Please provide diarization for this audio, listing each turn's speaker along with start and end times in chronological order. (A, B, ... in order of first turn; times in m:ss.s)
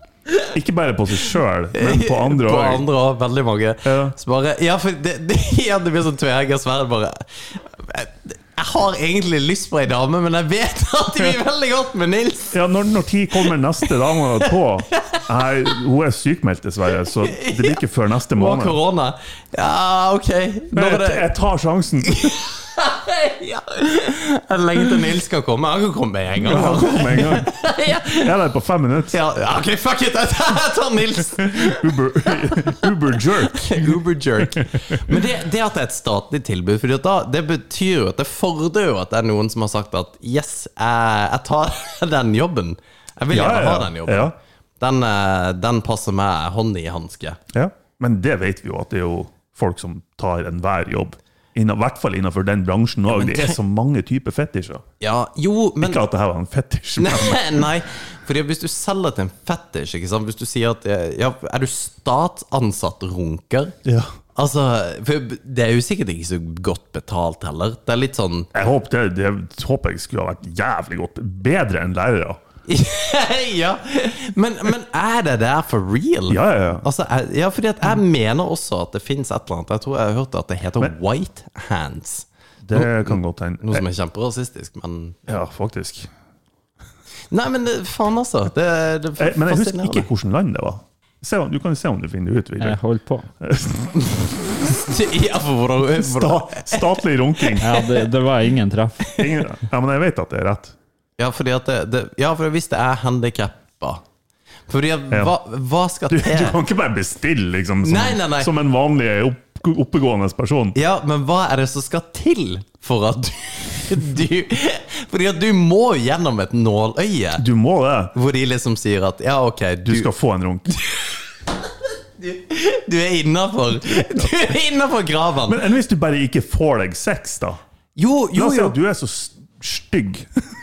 0:00.5-0:02.8 A
0:01.7-0:12.6 B
0:03.8-0:04.1 A
0:12.5-0:18.8 A
0:13.4-0:15.2 B
0:17.2-0:17.8 B
0:18.3-0:21.3 B
0:20.7-0:22.3 A
0:22.0-0:28.3 B
0:26.4-0:27.6 A
0:28.1-0:29.1 A
0:29.1-0:47.4 B
0:31.4-0:35.2 A
0:43.3-0:44.3 A
0:47.5-0:54.8 A
0:53.1-0:53.6 B
0:55.0-0:56.0 B
0:55.8-0:57.6 A
0:57.0-1:03.7 B
1:03.8-1:04.1 A
1:04.3-1:08.5 B
1:08.5-1:12.4 A
1:12.7-1:25.4 B
1:16.3-1:16.8 A
1:22.6-1:23.8 A
1:25.3-1:26.1 A
1:27.3-1:30.1 B
1:29.2-1:32.8 A
1:32.6-1:33.3 C
1:33.4-1:34.3 A
1:34.0-1:37.8 B
1:35.9-1:37.7 A
1:37.6-1:39.1 C
1:39.2-1:40.7 A
1:41.2-1:44.0 B
1:44.7-1:46.6 B
1:46.1-1:50.8 A
1:47.8-1:48.5 B
1:50.7-1:57.4 B
1:57.4-1:58.1 A
1:58.1-2:00.1 B
1:59.8-2:00.7 A
2:02.2-2:05.6 B
2:03.9-2:04.3 A
2:05.4-2:07.6 A
2:08.0-2:08.8 B
2:08.3-2:10.4 A